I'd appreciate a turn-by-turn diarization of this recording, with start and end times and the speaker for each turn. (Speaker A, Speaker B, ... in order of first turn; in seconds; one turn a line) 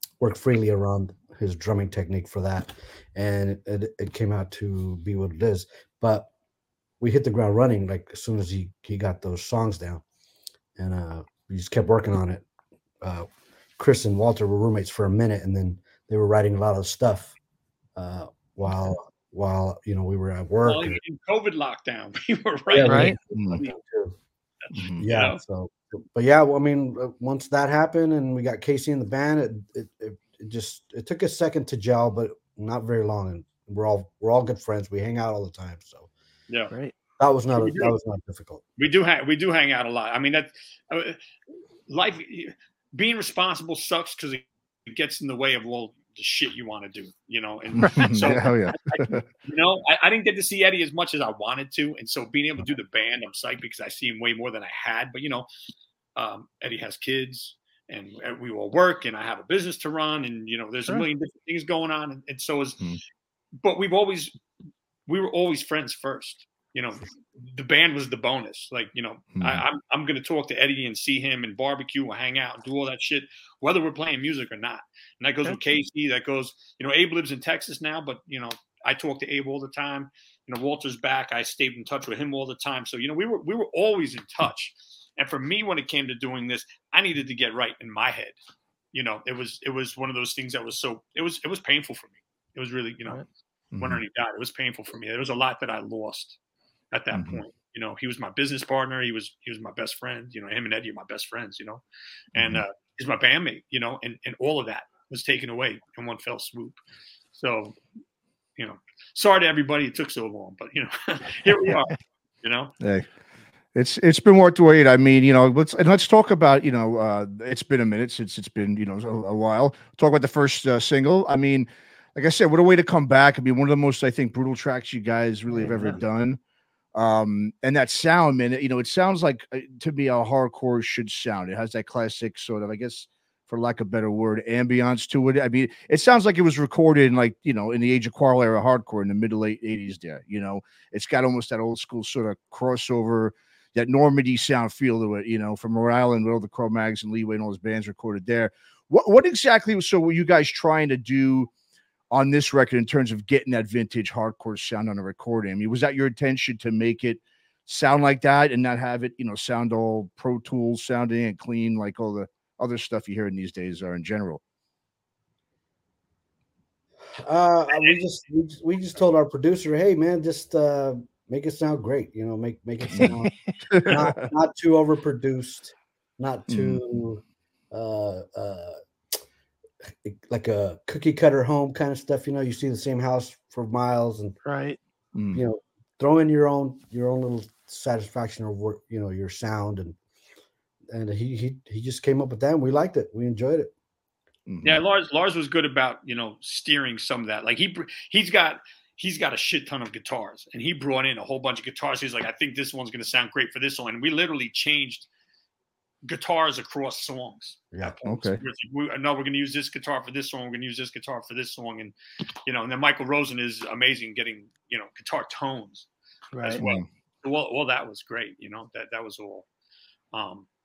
Speaker A: 0.2-6.3
Speaker A: 7.0-10.0
Speaker A: 10.8-12.4
Speaker A: 13.0-13.3
Speaker A: 13.8-17.3
Speaker A: 17.9-21.0
Speaker B: 20.6-23.7
Speaker A: 22.7-24.1
Speaker C: 22.8-23.2
Speaker D: 23.3-23.6
Speaker B: 24.6-25.4
Speaker D: 24.7-25.0
Speaker A: 25.0-36.1
Speaker A: 37.2-38.6
Speaker B: 37.5-37.9
Speaker B: 38.8-41.2
Speaker B: 41.9-55.5
Speaker D: 47.8-49.2
Speaker C: 47.8-48.2
Speaker B: 56.1-62.8
Speaker B: 63.6-64.3
Speaker B: 65.1-88.3
Speaker D: 69.3-69.6
Speaker B: 88.9-93.2
Speaker D: 93.7-94.0
Speaker B: 93.8-96.4
Speaker B: 96.9-101.8
Speaker D: 97.1-97.4
Speaker D: 102.3-102.6
Speaker B: 102.3-106.8
Speaker B: 107.3-107.8
Speaker B: 108.6-112.7
Speaker D: 112.8-113.1
Speaker D: 113.7-126.4
Speaker C: 125.5-126.0
Speaker D: 126.9-151.5
Speaker D: 152.1-164.4
Speaker A: 167.2-173.3
Speaker D: 172.9-174.2
Speaker A: 173.8-178.8
Speaker D: 176.5-176.8
Speaker A: 180.0-184.3
Speaker C: 184.4-184.8
Speaker D: 185.1-185.4
Speaker A: 185.3-190.0
Speaker A: 190.9-193.7
Speaker D: 194.5-194.8
Speaker B: 194.6-205.1
Speaker B: 206.0-211.9
Speaker D: 208.0-208.4
Speaker B: 212.4-215.9
Speaker C: 216.3-216.6
Speaker B: 216.4-219.4
Speaker B: 220.1-220.5